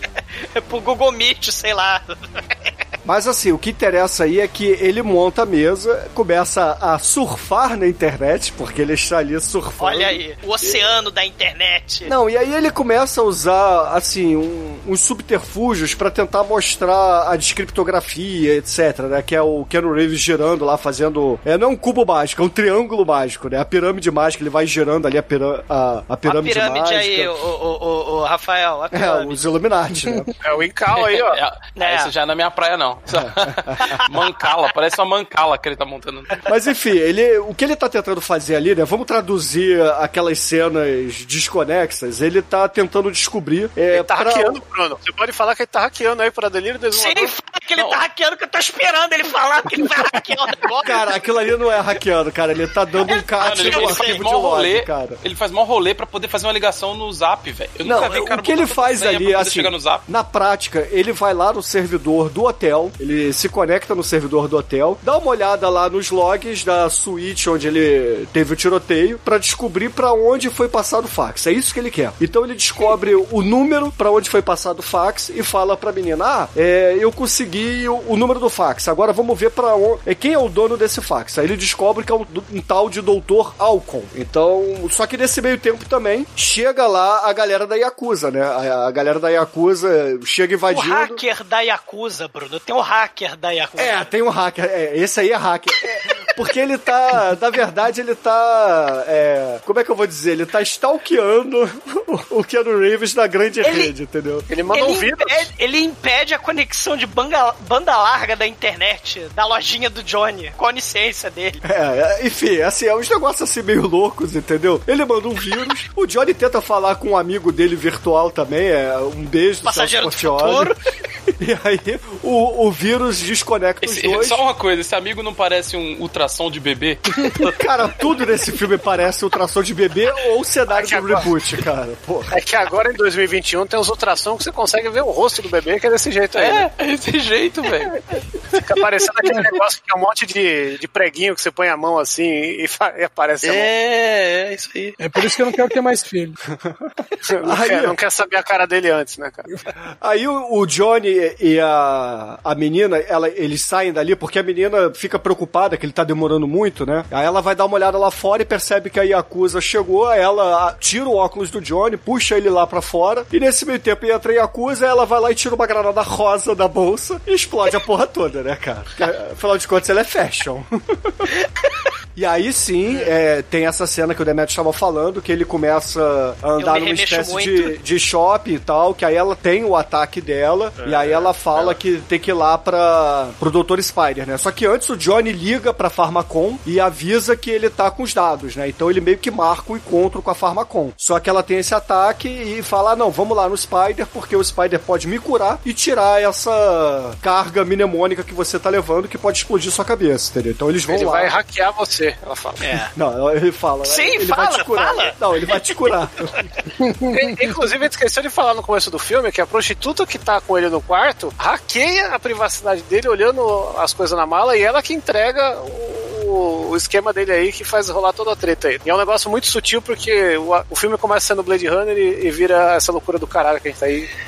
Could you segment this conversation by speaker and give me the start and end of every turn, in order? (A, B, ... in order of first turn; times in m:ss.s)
0:00.5-0:02.0 A
0:03.0-0:10.8 B
0:09.8-0:12.1 A
0:12.1-0:27.4 B
0:26.2-0:29.4 A
0:28.9-0:30.3 B
0:30.1-0:30.3 C
0:30.4-0:31.4 D
0:30.9-0:36.4 E
0:31.7-0:32.1 A
0:33.7-0:34.5 A
0:36.5-0:44.6 B
0:43.9-0:47.3 D
0:46.9-0:51.1 A
0:50.8-0:55.2 B
0:53.0-0:54.2 A
0:53.4-1:00.0 E
0:57.8-1:31.2 B
1:30.7-1:34.1 A
1:33.8-1:44.4 B
1:43.6-1:43.9 A
1:44.5-1:45.5 D
1:44.7-1:51.6 A
1:51.6-2:00.7 B
1:59.6-2:00.8 A
2:01.4-2:04.4 B
2:03.8-2:07.6 E
2:07.6-2:12.3 B
2:10.7-2:11.3 D
2:12.3-2:16.7 D
2:16.4-2:18.0 E
2:18.6-2:23.7 D
2:23.4-2:25.0 E
2:25.0-2:26.4 C
2:27.3-2:29.4 D
2:27.4-2:28.0 B
2:30.0-2:51.2 B
2:52.2-3:21.3 B
2:56.6-2:57.7 A
3:20.9-3:22.7 D
3:22.6-3:22.9 A
3:22.9-3:26.3 B
3:23.8-3:25.1 A
3:26.8-3:27.3 C
3:27.1-3:44.1 D